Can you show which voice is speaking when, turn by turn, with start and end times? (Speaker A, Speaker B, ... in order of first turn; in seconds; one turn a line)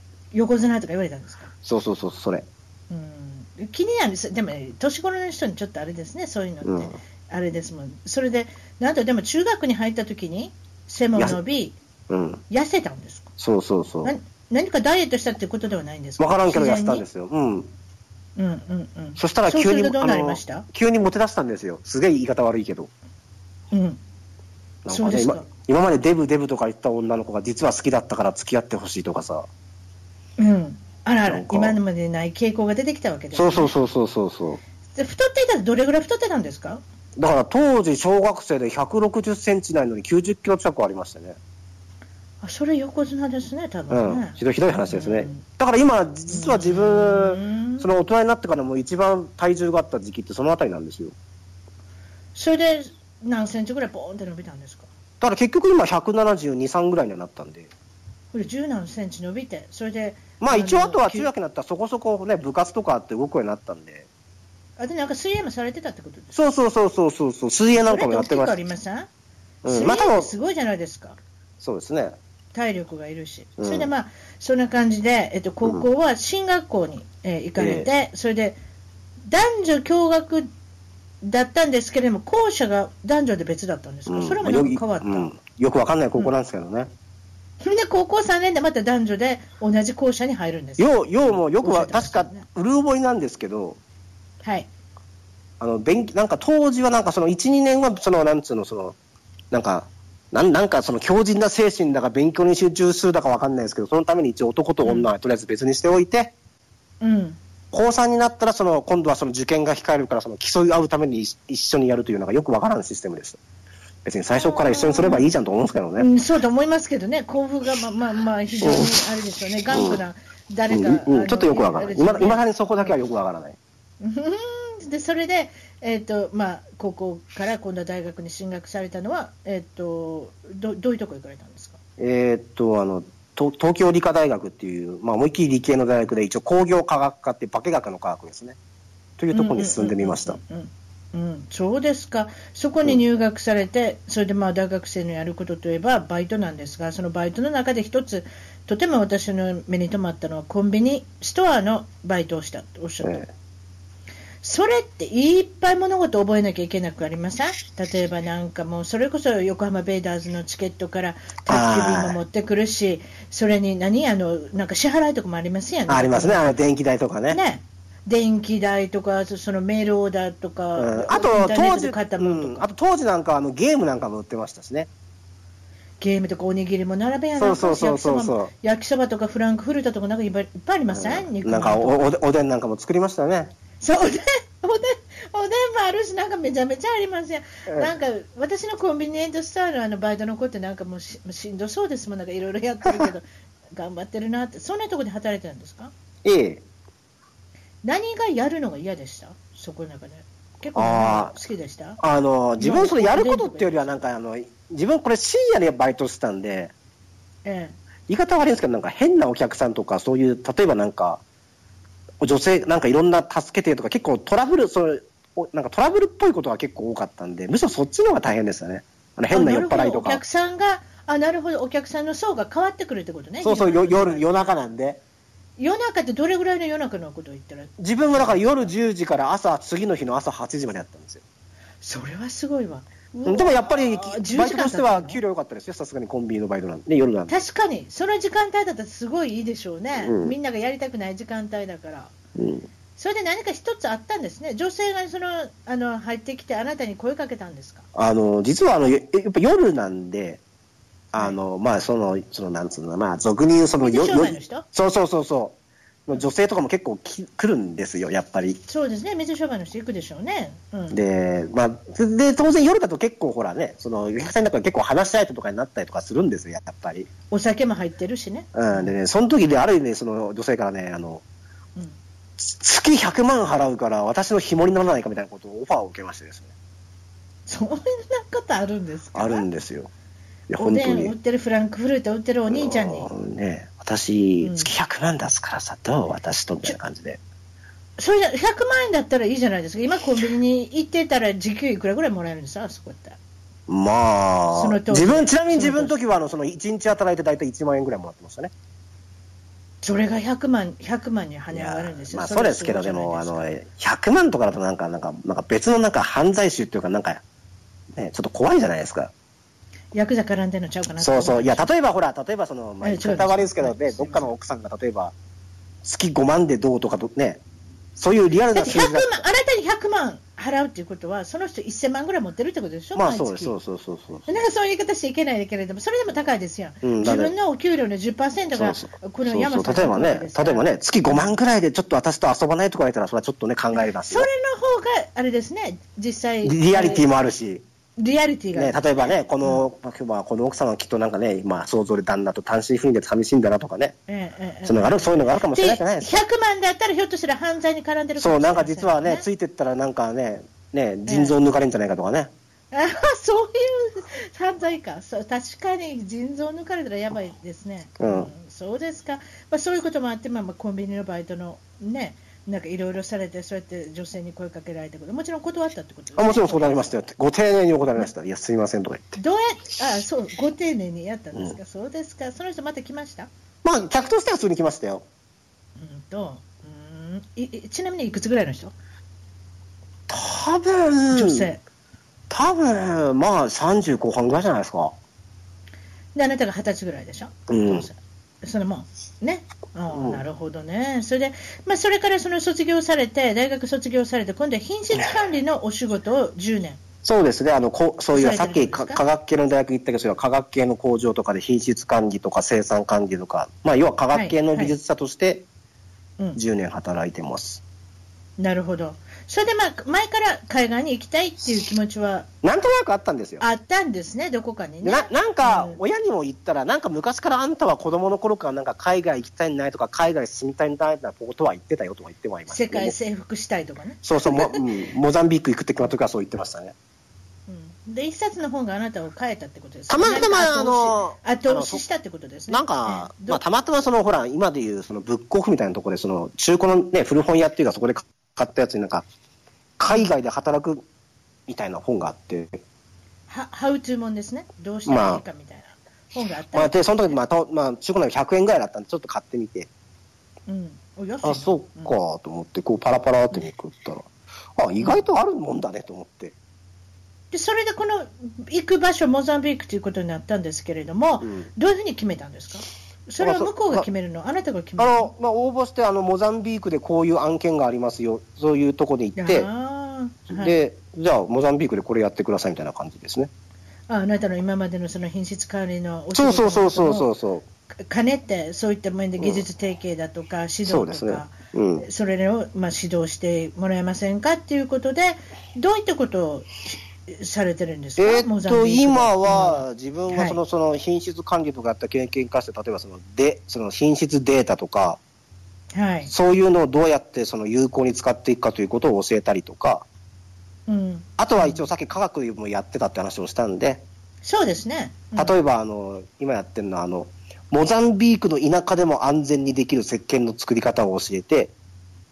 Speaker A: 0.3-1.5
Speaker B: 1.6-2.5
Speaker A: 2.9-11.8
Speaker B: 6.7-6.9
Speaker B: 12.1-12.4
Speaker A: 12.5-13.3
Speaker B: 13.4-14.1
Speaker A: 14.0-17.1
Speaker B: 16.2-17.7
Speaker A: 18.4-20.7
Speaker B: 19.2-22.9
Speaker A: 23.7-24.0
Speaker B: 24.9-29.5
Speaker A: 24.9-25.5
Speaker A: 30.4-33.8
Speaker B: 31.3-31.8
Speaker B: 33.3-34.6
Speaker A: 35.0-36.8
Speaker B: 37.2-41.4
Speaker A: 42.4-45.4
Speaker B: 43.9-51.1
Speaker A: 46.3-47.9
Speaker A: 52.4-54.9
Speaker B: 55.2-57.7
Speaker A: 58.3-61.3
Speaker B: 60.4-64.1
Speaker A: 64.8-66.4
Speaker B: 66.3-68.6
Speaker A: 67.8-69.1
Speaker B: 69.6-70.3
Speaker A: 69.7-71.2
Speaker B: 71.6-72.2
Speaker A: 72.5-78.6
Speaker B: 73.6-73.9
Speaker B: 77.6-77.9
Speaker A: 79.3-80.5
Speaker A: 81.2-85.3
Speaker B: 84.1-86.9
Speaker A: 87.6-92.5
Speaker B: 90.8-93.8
Speaker A: 94.4-94.7
Speaker B: 95.6-99.0
Speaker B: 99.5-106.3
Speaker A: 104.8-105.1
Speaker A: 107.0-107.4
Speaker B: 107.7-113.4
Speaker B: 114.0-116.1
Speaker A: 114.3-115.3
Speaker A: 116.0-122.4
Speaker B: 118.6-118.9
Speaker B: 119.7-120.0
Speaker B: 120.7-123.6
Speaker A: 124.0-131.8
Speaker B: 132.0-138.6
Speaker B: 139.2-140.4
Speaker A: 139.3-153.3
Speaker A: 154.4-166.6
Speaker B: 161.5-162.2
Speaker B: 165.9-167.4
Speaker A: 167.3-172.7
Speaker B: 170.8-174.9
Speaker A: 176.0-182.0
Speaker B: 177.4-178.5
Speaker B: 180.9-183.5
Speaker A: 183.8-195.9
Speaker B: 196.2-196.6
Speaker A: 197.8-202.0
Speaker B: 200.8-201.3
Speaker B: 202.0-206.7
Speaker A: 202.6-204.0
Speaker A: 207.4-207.8
Speaker B: 208.1-211.2
Speaker B: 212.2-220.2
Speaker A: 219.3-224.5
Speaker B: 223.4-225.0
Speaker A: 225.6-228.4
Speaker B: 227.8-231.2
Speaker A: 231.8-235.2
Speaker B: 233.2-237.4
Speaker A: 237.3-242.2
Speaker B: 240.0-240.3
Speaker B: 242.4-242.7
Speaker A: 243.0-247.9
Speaker B: 247.9-250.4
Speaker B: 251.1-255.6
Speaker A: 253.8-254.7
Speaker B: 256.1-258.6
Speaker A: 258.7-261.0
Speaker B: 260.9-267.1
Speaker A: 267.3-268.9
Speaker B: 268.5-271.2
Speaker B: 272.4-276.5
Speaker A: 277.5-279.4
Speaker B: 279.1-279.9
Speaker B: 280.5-281.1
Speaker A: 280.6-283.1
Speaker B: 282.5-287.2
Speaker A: 284.4-284.7
Speaker A: 288.0-293.2
Speaker B: 293.7-298.5
Speaker A: 294.5-295.9
Speaker A: 299.8-303.5
Speaker B: 301.5-307.2
Speaker B: 307.9-309.1
Speaker A: 309.9-311.7
Speaker B: 311.0-315.1
Speaker A: 312.8-314.3
Speaker B: 315.8-317.4
Speaker B: 318.0-319.2
Speaker A: 318.5-323.5
Speaker B: 322.9-324.3
Speaker A: 324.3-331.2
Speaker B: 326.8-327.3
Speaker B: 328.6-334.3
Speaker A: 333.7-337.1
Speaker B: 336.4-337.6
Speaker A: 338.0-338.8
Speaker B: 338.5-344.0
Speaker A: 344.1-349.3
Speaker B: 344.7-346.2
Speaker B: 348.2-352.3
Speaker A: 351.1-351.3
Speaker A: 352.7-366.9
Speaker B: 358.0-358.3
Speaker B: 366.2-369.2
Speaker A: 369.2-373.3
Speaker B: 373.6-375.1
Speaker A: 375.8-378.7
Speaker B: 380.1-381.5
Speaker A: 381.1-381.6
Speaker B: 382.3-384.9
Speaker A: 386.1-396.8
Speaker B: 387.5-387.9
Speaker B: 389.9-390.2
Speaker B: 397.0-405.5
Speaker A: 398.1-399.0
Speaker A: 404.1-404.8
Speaker B: 406.4-407.6
Speaker A: 408.4-412.3
Speaker B: 412.4-413.4
Speaker A: 413.4-415.8
Speaker B: 414.8-423.0
Speaker A: 422.5-424.6
Speaker B: 424.0-426.8
Speaker A: 427.5-433.4
Speaker B: 429.9-431.8
Speaker B: 432.5-439.1
Speaker B: 439.8-440.8
Speaker B: 441.5-442.6
Speaker A: 443.3-446.8
Speaker B: 444.9-445.2
Speaker B: 446.5-449.7
Speaker A: 450.5-451.9
Speaker B: 451.2-456.4
Speaker A: 457.3-465.1
Speaker B: 463.2-463.9
Speaker B: 464.8-469.5
Speaker A: 469.2-470.6
Speaker B: 470.3-473.3
Speaker A: 473.9-477.1
Speaker B: 476.1-477.4
Speaker A: 477.8-490.4
Speaker B: 479.2-479.4
Speaker B: 480.7-481.9
Speaker B: 488.0-495.0
Speaker A: 495.7-496.1
Speaker B: 496.1-499.9
Speaker A: 500.7-501.7
Speaker B: 501.2-503.8
Speaker A: 504.2-505.4
Speaker B: 505.2-511.5